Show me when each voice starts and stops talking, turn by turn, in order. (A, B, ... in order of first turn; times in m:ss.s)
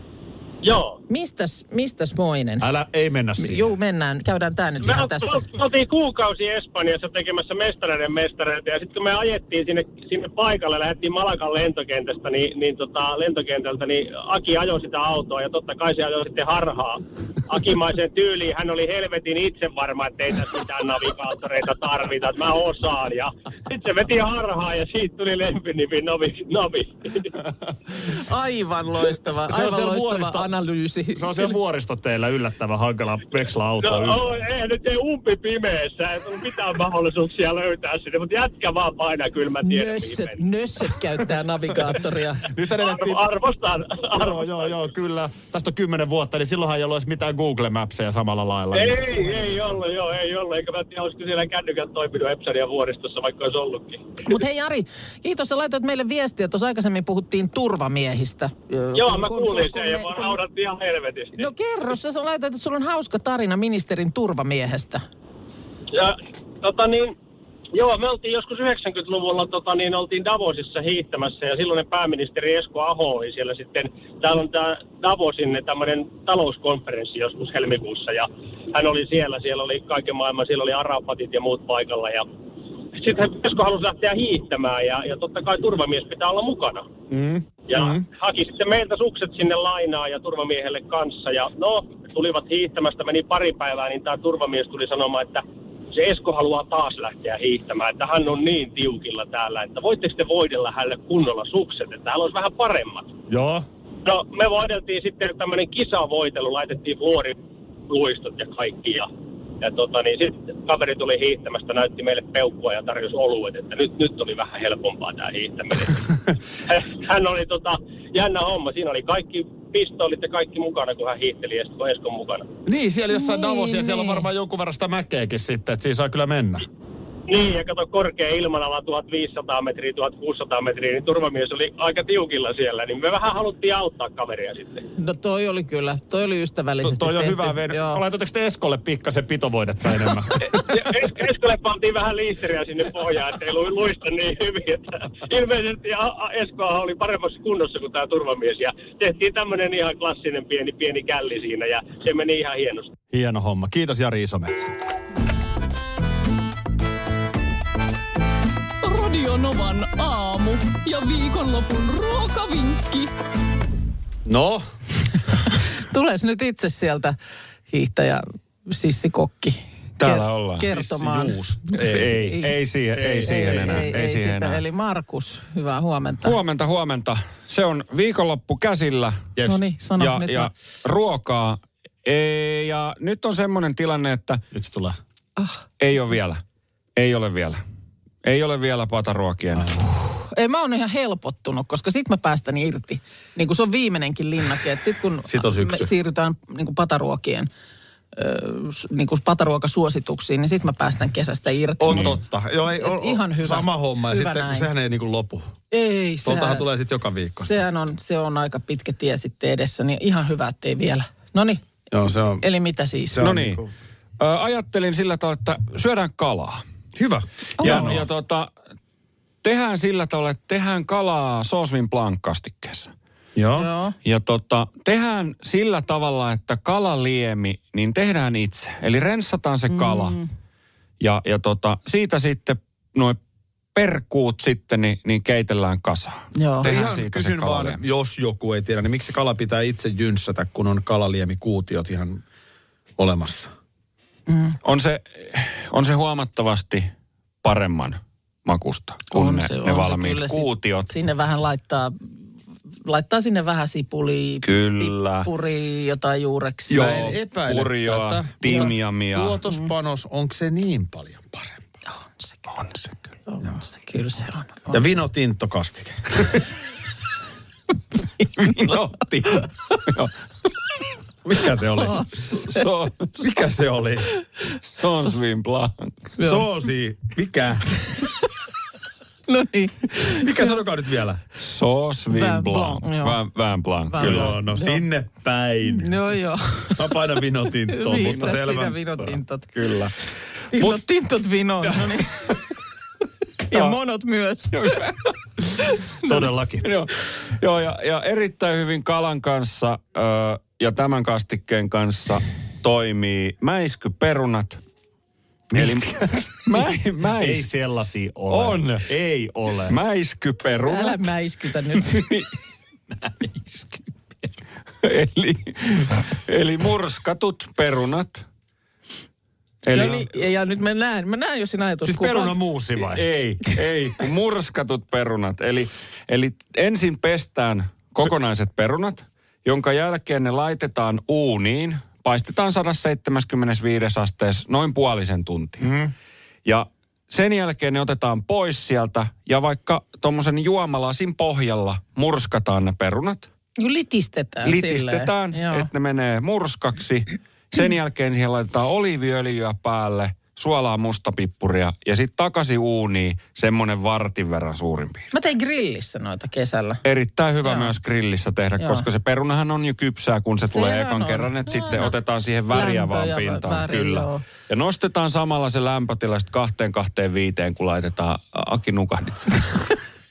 0:00.6-0:01.0 A
0:01.1-0:02.7 B
0:02.6-0:03.7 C
0:03.4-0:05.4 B
0:04.8-0:27.3 A
0:28.0-0:31.6 B
0:29.1-0:30.5 C
0:31.1-0:34.3 C
0:33.8-0:40.4 A
0:39.6-0:42.5 B
0:42.5-0:43.3 C
0:42.7-0:44.8 A
0:44.1-0:49.6 C
0:48.7-0:54.1 A
0:54.2-1:00.4 B
0:58.9-1:01.4 A
1:01.3-1:05.0 B
1:05.9-1:07.2 A
1:07.7-1:22.3 A
1:22.9-1:26.8 A
1:27.1-1:28.0 C
1:27.7-1:43.1 A
1:43.3-1:43.6 C
1:44.0-1:47.4 A
1:47.9-1:49.1 A
1:49.6-1:56.1 A
1:56.7-2:02.5 A
2:02.6-2:06.7 C
2:03.1-2:04.2 B
2:07.3-2:14.8 A
2:15.0-2:18.0 B
2:16.8-2:20.8 C
2:20.5-2:32.9 A
2:33.1-2:34.7 C
2:38.8-2:43.1 D
2:44.2-2:44.6 C
2:45.5-2:47.2 B
2:47.7-2:52.5 B
2:50.0-2:50.7 E
2:50.6-2:52.4 C
2:51.8-2:54.6 E
2:52.9-2:54.0 C
2:53.2-2:56.4 B
2:56.2-2:59.3 E
2:59.4-3:00.5 B
3:00.0-3:04.4 E
3:04.5-3:05.0 C
3:05.8-3:06.4 E
3:07.0-3:07.6 E
3:08.2-3:09.7 E
3:09.6-3:09.8 C
3:10.1-3:17.5 B
3:15.3-3:15.9 C
3:18.1-3:22.2 B
3:21.8-3:25.5 C
3:22.7-3:24.7 B
3:25.7-3:26.6 B
3:26.2-3:27.5 C
3:27.4-3:31.6 B
3:31.9-3:32.4 C
3:32.4-3:33.2 B
3:33.1-3:33.7 C
3:33.2-3:33.6 E
3:34.2-3:36.6 E
3:36.9-3:38.1 C
3:37.6-3:37.9 B
3:37.6-3:38.5 E
3:39.4-3:42.9 E
3:43.3-3:43.7 C
3:43.6-3:43.9 B
3:44.0-3:50.2 E
3:49.7-3:50.2 B
3:51.0-3:53.2 E
3:53.7-3:57.8 E
3:56.3-3:56.7 B
3:56.6-4:02.2 C
4:03.0-4:03.5 C
4:04.3-4:04.6 B
4:04.6-4:06.9 E
4:07.4-4:10.9 E
4:09.1-4:12.1 B
4:12.8-4:17.0 B
4:14.4-4:15.3 E
4:16.7-4:21.6 C
4:16.7-4:19.4 E
4:21.9-4:22.6 B
4:23.3-4:24.9 B
4:24.7-4:26.4 C
4:28.2-4:28.8 B
4:28.3-4:30.1 C
4:31.2-4:32.4 C
4:31.8-4:32.6 B
4:32.3-4:33.2 E
4:33.2-4:34.1 C
4:34.6-4:36.0 E
4:36.2-4:36.4 B
4:36.2-4:37.8 C
4:39.3-4:40.6 B
4:40.0-4:41.2 C
4:41.4-4:44.3 E
4:42.1-4:43.2 B
4:43.9-4:44.8 B
4:43.9-4:46.0 C
4:45.7-4:46.9 B
4:46.8-4:48.8 C
4:47.7-4:49.5 B
4:49.5-4:49.9 E
4:50.5-4:52.4 B
4:51.7-4:52.0 E
4:53.5-4:54.6 B
4:54.5-4:55.1 E
4:56.0-4:56.7 C
4:56.6-5:04.6 E
5:05.5-5:09.8 C
5:05.5-5:07.4 E
5:08.3-5:08.9 E
5:09.7-5:11.1 E
5:10.6-5:12.2 B
5:11.7-5:12.3 E
5:14.8-5:18.2 E
5:19.6-5:20.1 E
5:19.7-5:22.4 B
5:21.8-5:23.0 C
5:22.9-5:35.7 E
5:36.4-5:43.3 E
5:43.6-5:45.7 B
5:44.4-5:55.1 E
5:55.1-5:56.8 B
5:56.8-6:09.7 E
5:57.4-5:57.7 B
5:58.6-5:58.8 B
6:00.5-6:01.9 B
6:02.5-6:04.2 B